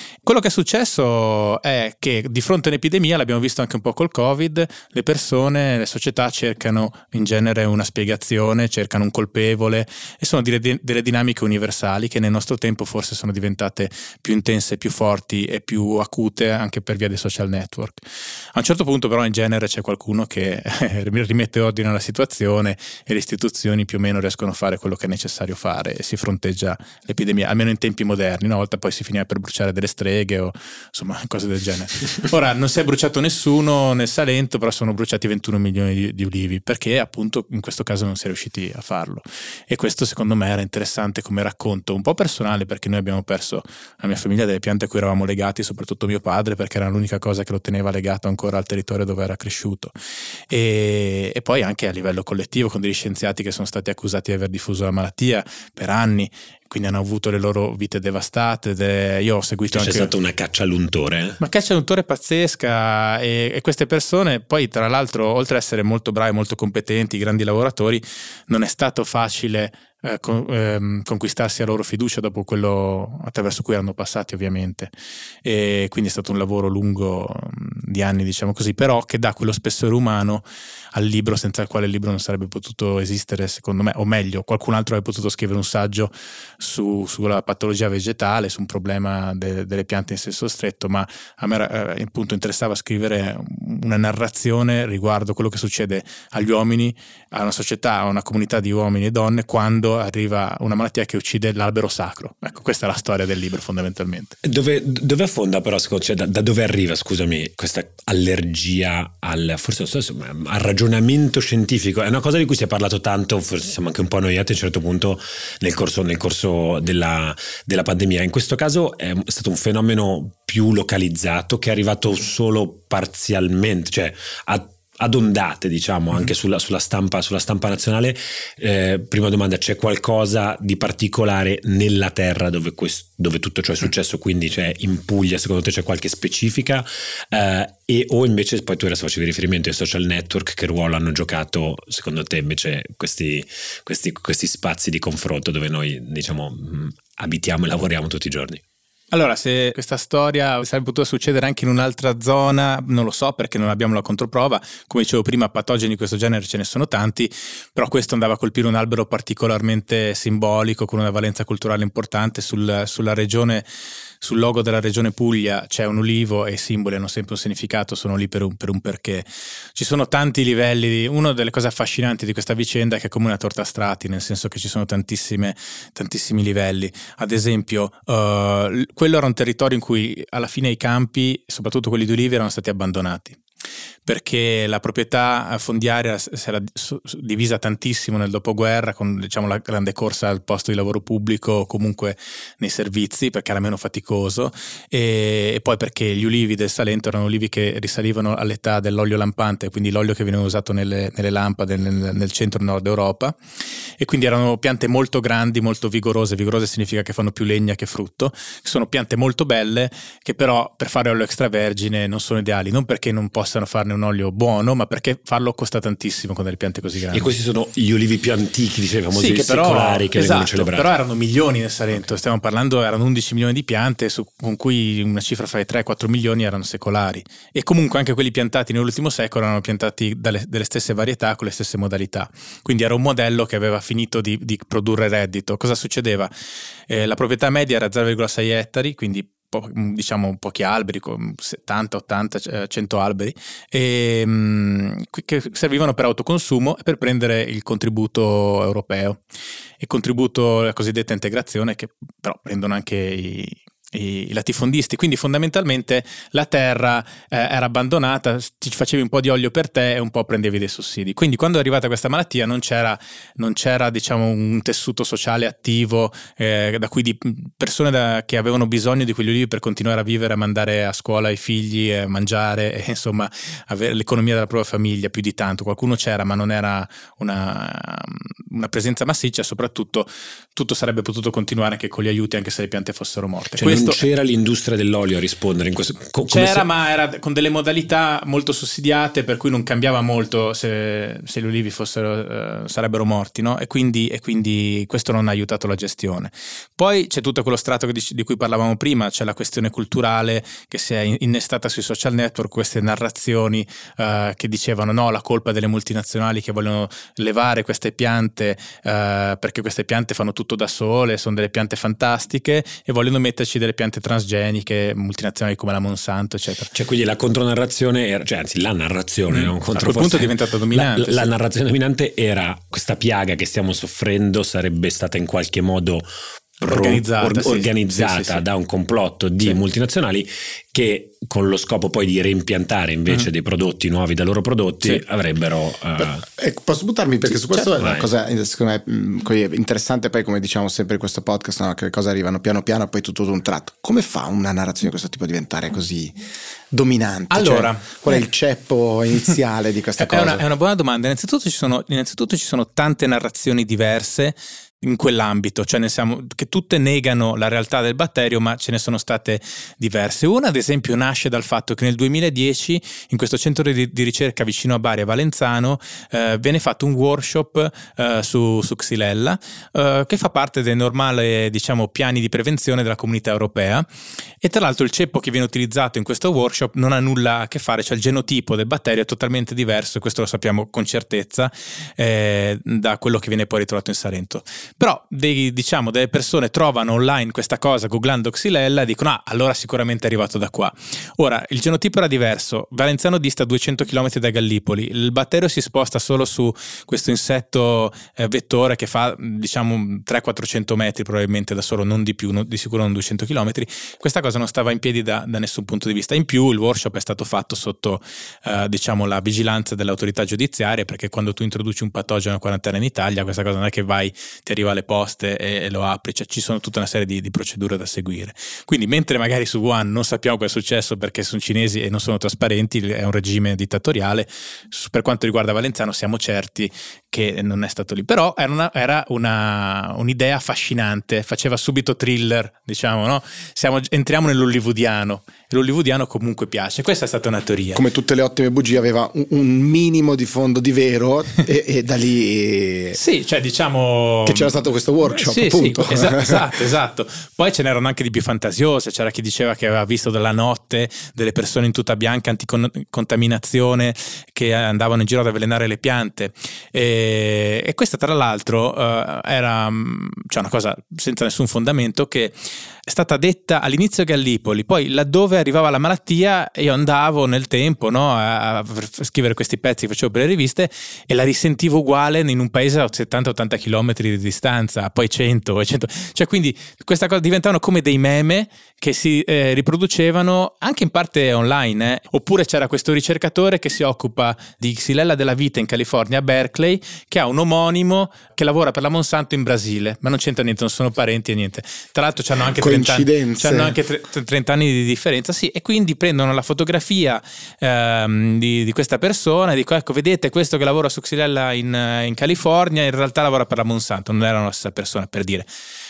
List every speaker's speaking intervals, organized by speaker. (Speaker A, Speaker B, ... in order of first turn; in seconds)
Speaker A: 0.2-49.9, 50.5-60.1, 61.4-74.9, 75.4-104.4, 149.1-163.7, 164.2-183.4, 184.1-203.4, 204.0-217.3, 219.1-236.3, 236.9-249.2, 249.8-284.0, 286.3-316.7, 319.3-321.3, 326.6-328.4, 347.3-348.3, 350.0-373.9, 374.4-437.8, 442.9-505.5
Speaker B: 59.7-61.4, 104.5-148.6, 217.1-220.9, 283.6-286.7, 316.7-326.1, 326.6-336.3, 337.8-338.1
Speaker C: 336.0-346.1, 346.7-350.4, 437.7-443.0, 444.3-446.6, 492.6-493.8